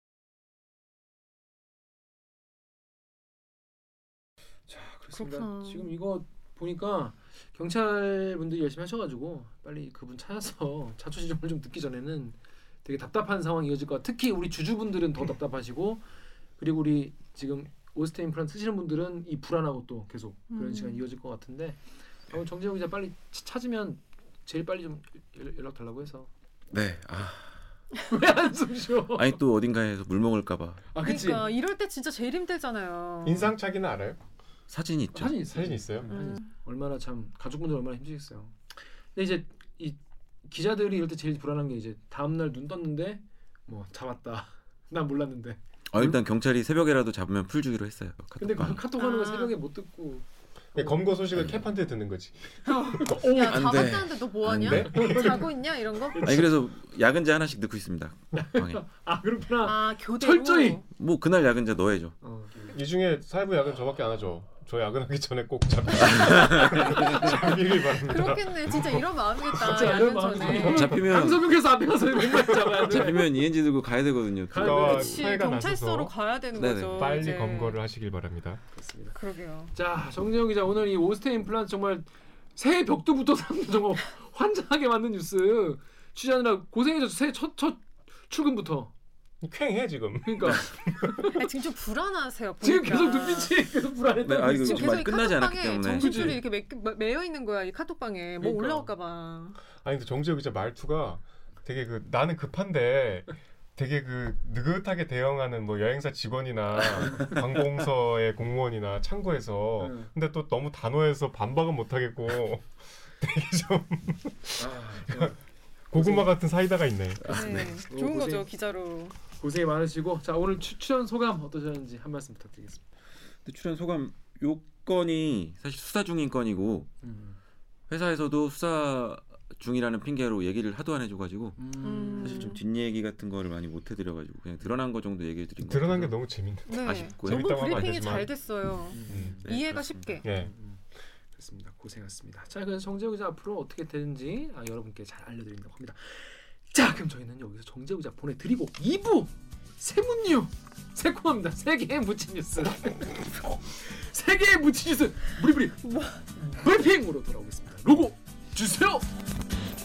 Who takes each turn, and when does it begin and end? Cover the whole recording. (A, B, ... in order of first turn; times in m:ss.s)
0:04.7-0:16.0 A
0:05.1-0:05.9 B
0:16.6-0:26.3 A
0:20.5-0:21.0 B
0:26.7-0:27.6 C
0:28.1-0:29.4 A
0:29.2-0:30.8 C
0:30.9-0:31.5 A
0:31.0-0:33.5 B
0:33.2-0:34.2 D
0:34.7-0:35.4 C
0:35.1-0:46.2 A
0:35.5-0:36.1 D
0:36.1-0:36.5 B
0:45.9-0:48.8 C
0:48.4-0:50.2 A
0:49.0-0:49.5 B
0:50.8-0:53.1 D
0:50.8-0:51.1 A
0:52.7-0:56.3 B
0:53.0-0:54.0 A
0:53.2-0:54.9 C
0:54.5-0:55.4 D
0:54.9-0:55.5 A
0:56.1-0:56.6 A
0:56.2-0:58.8 C
0:58.4-1:00.8 A
0:59.6-1:00.8 B
1:00.9-1:02.2 C
1:02.2-1:02.8 A
1:02.7-1:09.1 D
1:06.0-1:07.5 C
1:06.1-1:11.0 B
1:09.5-1:13.3 A
1:10.4-1:11.6 C
1:12.6-1:15.3 C
1:14.5-1:15.2 A
1:14.5-1:16.1 D
1:14.8-1:17.8 B
1:16.5-1:17.3 C
1:16.9-1:18.6 D
1:18.7-1:19.2 A
1:19.2-1:19.7 B
1:19.8-1:28.9 A
1:29.4-1:31.3 D
1:30.2-1:31.4 A
1:31.3-1:33.5 B
1:32.6-1:35.2 A
1:34.2-1:36.4 C
1:34.6-1:39.6 B
1:35.9-1:36.4 A
1:38.4-1:38.9 A
1:39.8-1:55.3 D
1:47.0-1:47.3 A
1:49.8-1:50.1 A
1:54.6-1:55.4 A
1:55.9-1:57.6 D
1:55.9-1:56.3 A
1:57.2-1:57.7 C
1:57.3-1:59.2 B
1:57.3-1:58.4 A
1:59.4-2:02.8 A
2:03.4-2:06.9 C
2:07.0-2:07.4 A
2:07.9-2:16.2 C
2:11.6-2:12.6 A
2:11.8-2:12.6 B
2:15.6-2:18.3 D
2:16.7-2:20.3 B
2:16.8-2:18.0 C
2:18.9-2:19.5 A
2:19.1-2:19.4 D
2:19.4-2:20.2 C
2:20.2-2:20.5 D
2:20.2-2:20.8 A
2:21.3-2:39.1 A
2:35.8-2:36.2 B